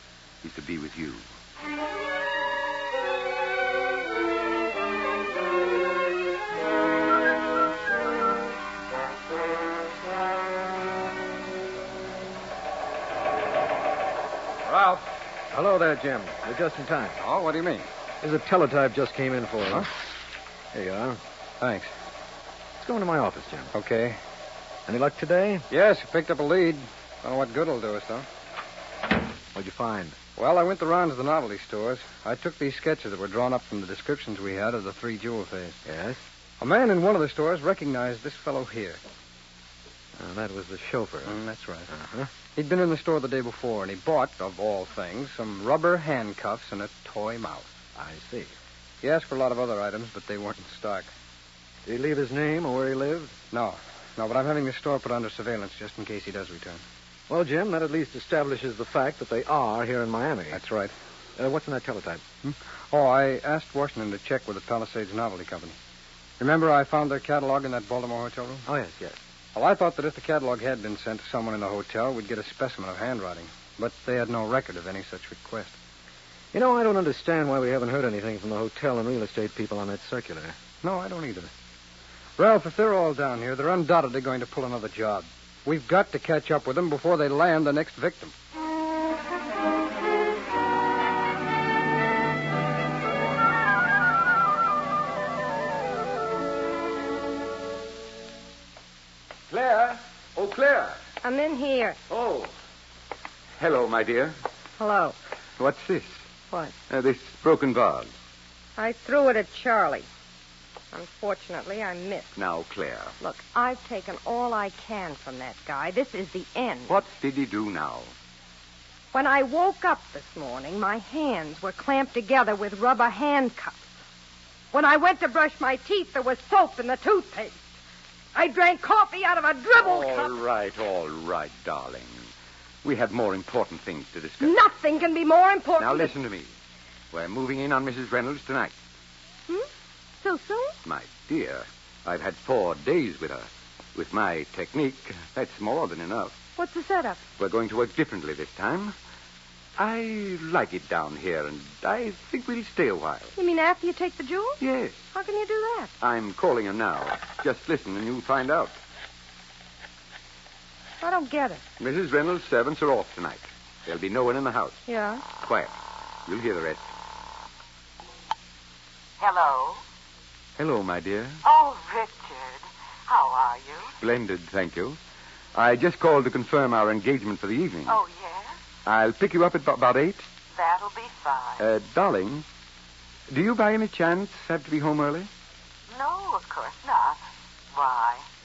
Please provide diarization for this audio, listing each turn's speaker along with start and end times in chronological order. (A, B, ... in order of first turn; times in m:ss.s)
0:00.4-0:01.2 A
0:14.7-0:17.2 B
0:17.2-0:17.9 C
0:18.2-0:19.9 B
0:20.7-0:21.2 B
0:21.6-0:21.9 C
0:22.8-0:23.7 B
0:23.7-0:24.2 C
0:24.9-0:25.7 B
0:25.7-0:28.3 C
0:29.5-0:30.2 B
0:30.4-0:35.8 C
0:35.9-0:36.2 B
0:36.6-0:39.0 C
0:40.2-0:41.4 B
0:41.3-0:41.9 C
0:41.9-0:42.3 B
0:42.6-0:47.7 C
0:48.0-0:48.5 B
0:49.0-0:51.1 C
0:51.9-0:53.4 B
0:53.5-0:56.8 C
0:57.3-1:00.6 B
1:00.5-1:00.9 C
1:01.4-1:02.2 B
1:02.9-1:05.8 C
1:06.4-1:08.7 C
1:08.7-1:09.2 B
1:09.6-1:15.8 C
1:16.5-1:20.6 B
1:20.8-1:21.5 C
1:22.4-1:28.3 C
1:39.5-1:41.0 A
1:41.2-1:42.0 D
1:42.1-1:42.5 A
1:43.6-1:44.4 A
1:44.8-1:45.2 D
1:45.6-1:46.2 A
1:46.9-1:48.1 A
1:48.8-1:50.1 D
1:50.9-1:52.3 D
1:52.4-1:53.2 A
1:53.2-1:57.0 D
1:56.9-1:58.1 A
1:59.1-2:03.8 D
2:04.7-2:07.6 D
2:08.4-2:10.3 D
2:09.8-2:12.3 A
2:12.8-2:14.6 A
2:14.4-2:16.1 D
2:15.8-2:16.5 A
2:17.1-2:18.7 A
2:20.2-2:20.8 D
2:20.8-2:26.3 A
2:26.6-2:27.2 D
2:27.4-2:29.0 A
2:29.8-2:33.3 A
2:33.4-2:34.6 D
2:34.6-2:35.0 A
2:35.1-2:35.9 D
2:36.0-2:38.8 A
2:41.0-2:41.6 D
2:41.8-2:44.8 A
2:44.9-2:45.2 D
2:45.3-2:45.7 A
2:46.3-2:46.9 A
2:49.2-2:49.8 E
2:50.6-2:51.4 A
2:51.4-2:53.9 E
2:54.0-2:55.0 A
2:55.6-2:58.0 A
2:57.9-2:58.5 E
2:58.9-3:00.2 A
3:00.6-3:01.6 E
3:01.6-3:02.4 A
3:03.3-3:05.3 A
3:05.9-3:07.2 E
3:07.7-3:08.2 E